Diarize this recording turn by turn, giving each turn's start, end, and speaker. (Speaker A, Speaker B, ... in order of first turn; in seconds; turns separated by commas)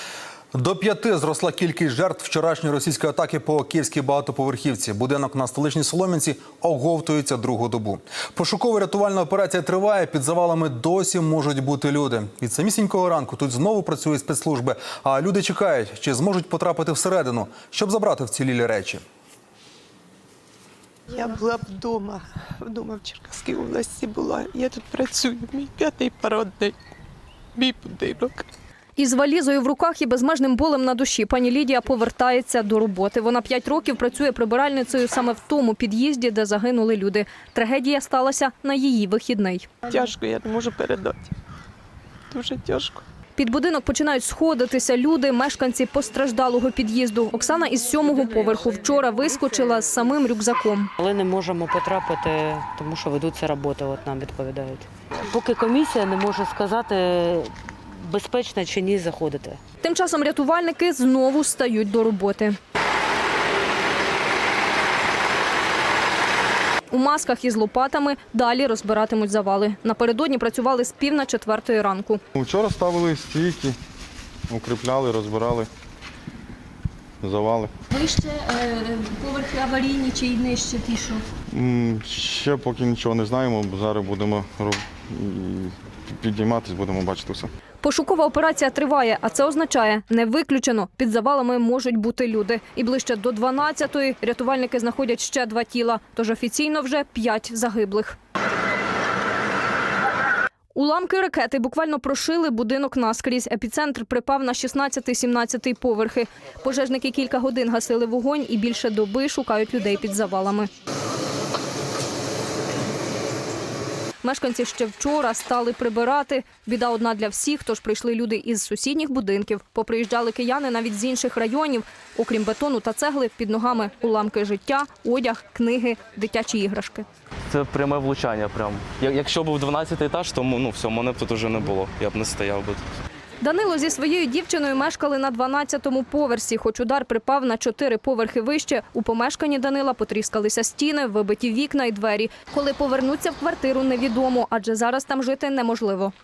Speaker A: 0.5-19.0, Speaker B: 21.1-26.8, Speaker B: 27.6-28.5, Speaker C: 29.0-39.7, Speaker B: 39.9-41.3, Speaker B: 42.3-43.0, Speaker C: 43.4-50.9, Speaker D: 51.1-54.9, Speaker D: 55.4-57.5, Speaker D: 58.1-59.5, Speaker C: 59.8-62.6, Speaker C: 66.9-72.2, Speaker E: 72.3-73.8, Speaker E: 74.5-75.7, Speaker E: 77.2-77.7, Speaker C: 77.9-81.2, Speaker E: 81.5-87.5, Speaker C: 87.8-98.2, Speaker C: 100.8-110.7, Speaker C: 114.2-127.1, Speaker F: 127.5-132.8, Speaker C: 133.4-146.1